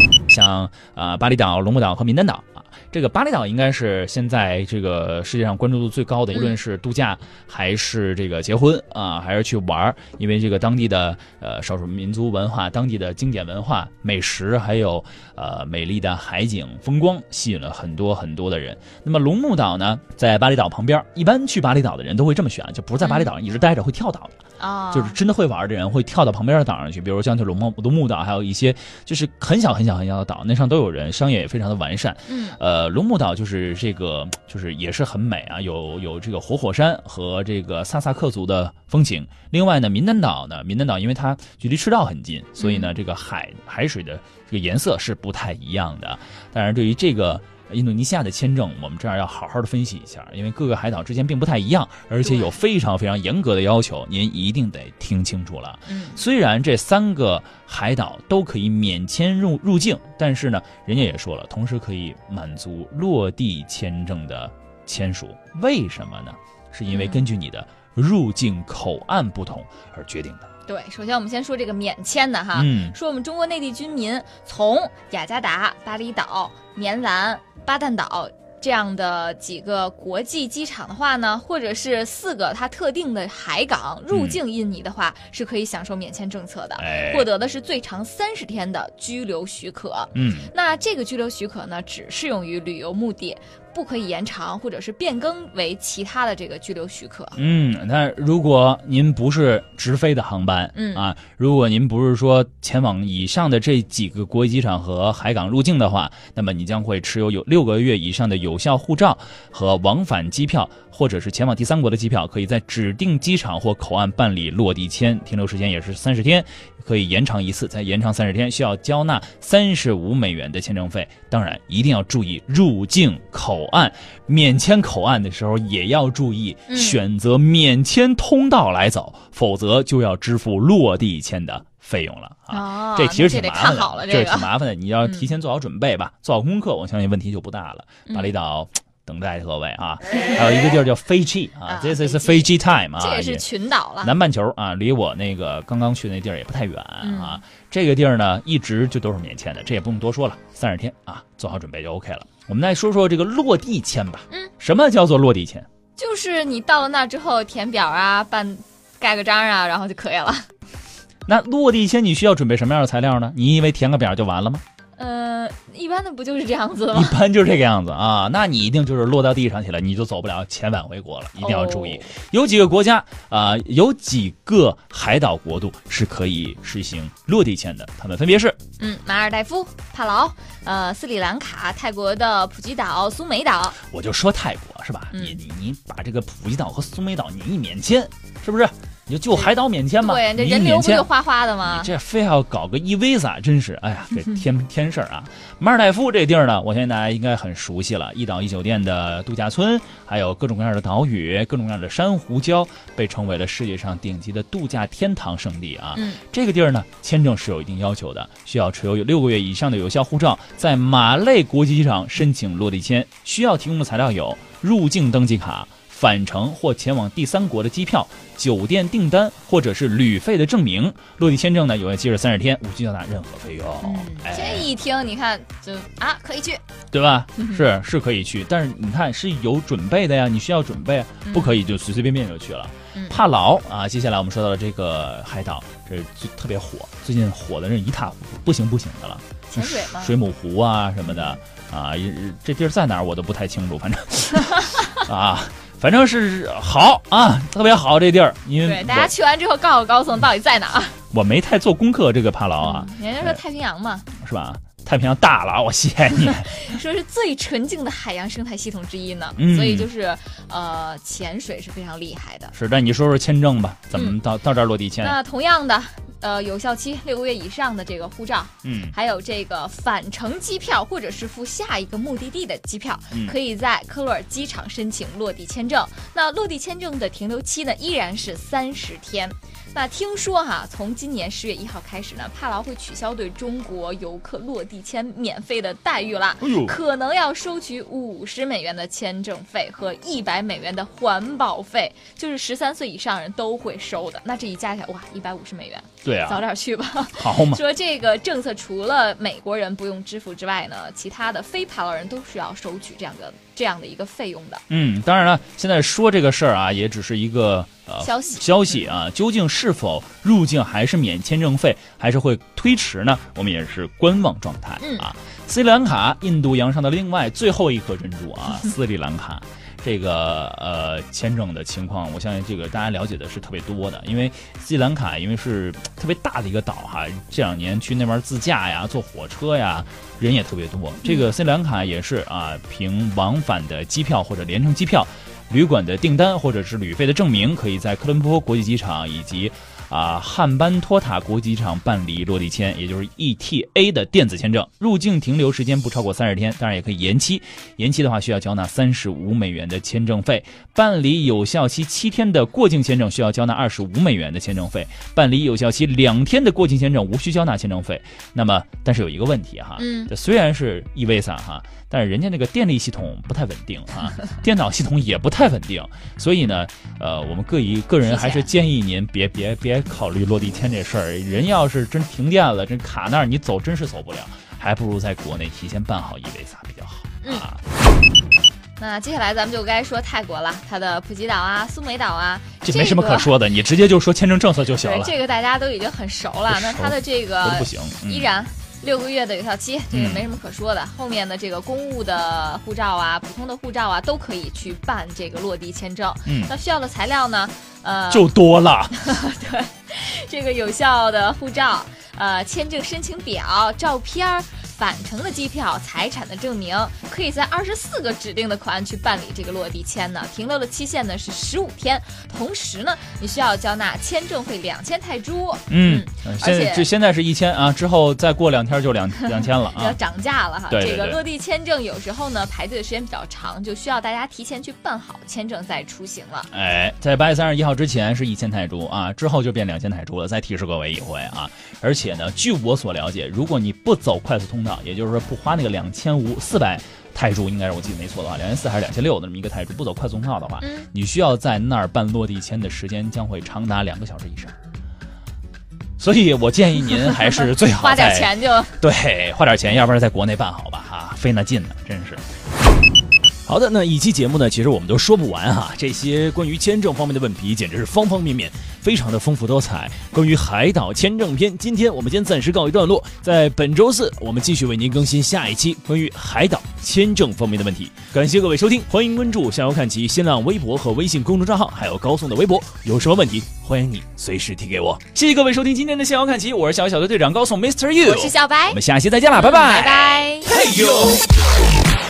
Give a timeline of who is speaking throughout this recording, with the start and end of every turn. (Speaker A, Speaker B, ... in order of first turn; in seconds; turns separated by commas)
Speaker A: 0.3-24.4, Speaker B: 23.0-23.3, Speaker B: 24.6-25.2, Speaker A: 24.9-70.5, Speaker B: 32.3-32.6, Speaker B: 42.6-42.9, Speaker B: 52.2-52.6, Speaker B: 55.9-56.2, Speaker B: 66.9-67.3, Speaker B: 70.7-97.4, Speaker A: 72.5-73.0, Speaker A: 84.1-84.4, Speaker A: 86.8-87.3, Speaker A: 90.1-90.5, Speaker A: 97.3-143.5, Speaker B: 100.7-101.1, Speaker B: 126.7-127.0, Speaker B: 132.5-134.5, Speaker B: 135.0-135.3, Speaker B: 138.1-138.3, Speaker B: 141.7-144.2, Speaker A: 144.0-155.7, Speaker B: 147.0-147.4, Speaker B: 156.0-160.5, Speaker A: 161.3-164.6, Speaker B: 165.0-167.1, Speaker A: 166.9-178.6, Speaker B: 171.4-172.1, Speaker B: 178.8-183.8, Speaker A: 183.8-191.1, Speaker B: 185.1-185.4, Speaker B: 189.3-191.9, Speaker A: 191.6-224.7, Speaker B: 205.9-206.2, Speaker B: 223.8-226.6, Speaker A: 226.9-249.1, Speaker B: 227.4-227.6, Speaker B: 231.2-231.6, Speaker B: 232.9-233.2, Speaker B: 239.5-240.2, Speaker B: 241.1-241.4, Speaker B: 248.6-251.0, Speaker A: 251.1-253.4, Speaker B: 252.6-254.1, Speaker A: 254.1-256.7, Speaker B: 256.4-262.5, Speaker A: 259.4-259.9, Speaker A: 262.5-265.1, Speaker B: 265.0-304.6, Speaker A: 268.6-268.9, Speaker A: 273.1-273.4, Speaker A: 286.4-286.8, Speaker A: 296.0-296.4, Speaker A: 297.1-297.6, Speaker A: 304.7-377.6, Speaker B: 308.0-308.9, Speaker B: 314.8-315.1, Speaker B: 331.0-331.3, Speaker B: 359.8-360.1, Speaker B: 368.0-368.5, Speaker B: 378.8-383.3, Speaker A: 382.6-385.2, Speaker B: 384.8-398.3, Speaker A: 386.5-388.3, Speaker A: 389.9-390.3, Speaker A: 396.2-396.5, Speaker A: 398.1-398.9, Speaker B: 398.9-416.9, Speaker A: 415.7-420.0, Speaker B: 419.2-426.5, Speaker A: 420.7-421.2, Speaker A: 426.5-444.5, Speaker B: 440.6-440.9, Speaker A: 446.0-452.2, Speaker B: 447.6-448.8, Speaker A: 453.4-481.3, Speaker B: 478.0-478.8, Speaker B: 479.3-480.5